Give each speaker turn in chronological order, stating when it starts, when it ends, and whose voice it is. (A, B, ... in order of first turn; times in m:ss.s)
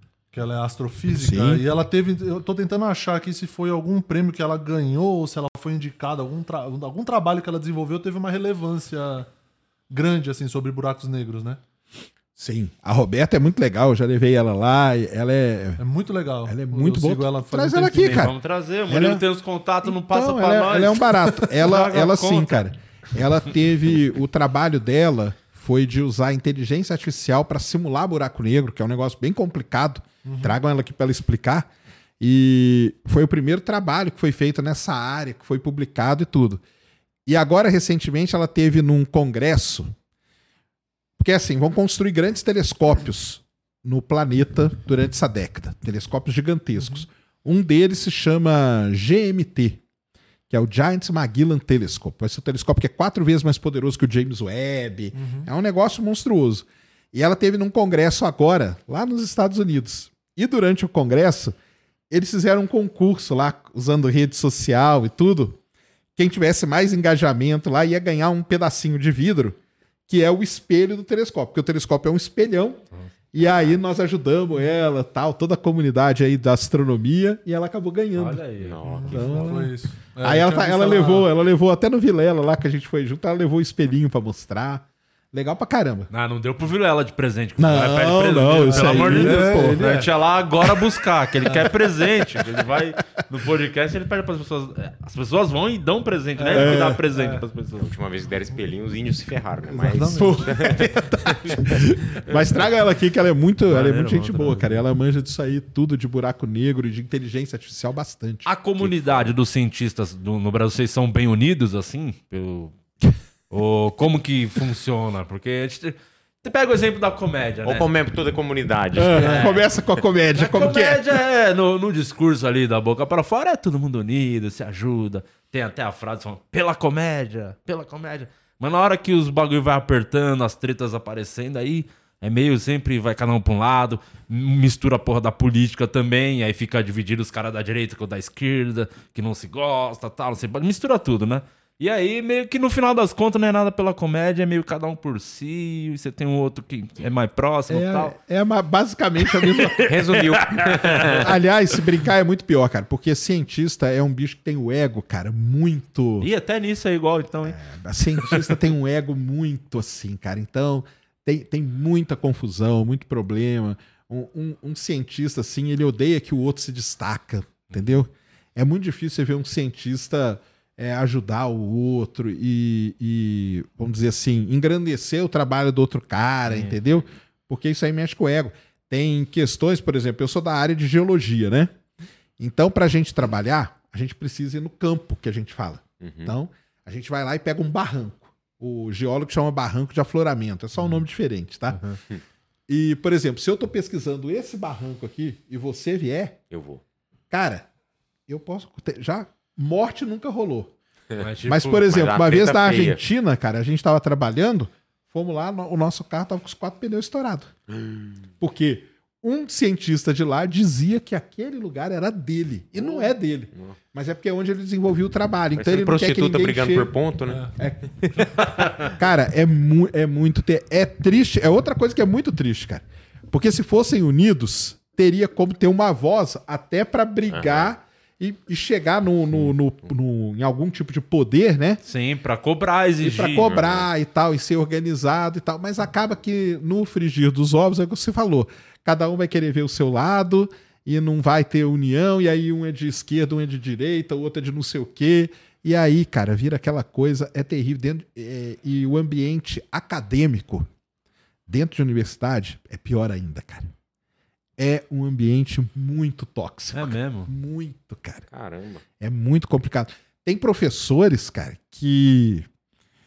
0:00.3-0:09.3 A
0:01.1-0:01.6 B
0:09.9-0:11.6 A
0:12.4-0:15.8 B
0:15.8-0:18.2 A
0:16.4-0:18.4 B
0:17.9-0:22.6 C
0:18.9-0:19.2 B
0:19.8-0:31.7 B
0:30.2-0:30.6 A
0:32.2-0:36.6 B
0:37.3-0:39.9 B
0:41.2-0:49.8 B
0:46.8-0:47.0 A
0:50.5-1:01.6 B
0:55.1-0:55.5 A
1:02.1-1:05.6 B
1:06.2-1:12.8 B
1:13.3-1:18.4 B
1:18.1-1:18.8 C
1:18.6-1:19.3 D
1:18.8-1:21.3 A
1:19.0-1:26.1 B
1:26.1-1:37.9 C
1:27.6-1:29.9 B
1:28.6-1:30.1 A
1:36.4-1:37.4 A
1:36.5-1:37.0 B
1:37.8-1:42.6 D
1:39.7-1:48.9 B
1:39.8-1:40.5 A
1:43.7-1:44.8 C
1:48.4-1:52.8 C
1:53.5-1:57.9 C
1:57.6-1:59.5 D
1:59.0-2:01.0 B
1:59.1-1:59.6 C
1:59.1-1:59.6 A
2:00.4-2:28.1 C
2:27.7-2:29.8 B
2:29.3-2:31.2 C
2:29.9-2:31.3 D
2:31.1-2:36.3 B
2:36.2-2:37.6 C
2:37.4-3:01.7 B
2:38.2-2:38.5 C
2:47.7-2:48.0 C
2:56.5-2:56.8 C
3:02.4-3:11.8 B
3:06.0-3:06.3 D
3:11.7-3:12.0 C
3:12.7-3:16.4 B
3:16.5-3:16.8 D
3:17.3-3:17.6 B
3:18.3-3:20.7 B
3:21.2-3:21.9 C
3:21.5-3:27.5 B
3:21.9-3:23.0 D
3:27.8-3:28.1 D
3:28.4-3:36.9 B
3:32.8-3:33.7 D
3:35.6-3:37.5 D
3:37.6-3:51.8 B
3:47.3-3:47.7 D
3:51.8-3:53.5 C
3:53.0-4:10.7 B
3:53.2-3:53.9 D
4:11.5-4:13.7 B
4:14.6-4:18.2 B
4:16.7-4:17.3 C
4:18.3-4:18.8 D
4:19.0-4:22.5 B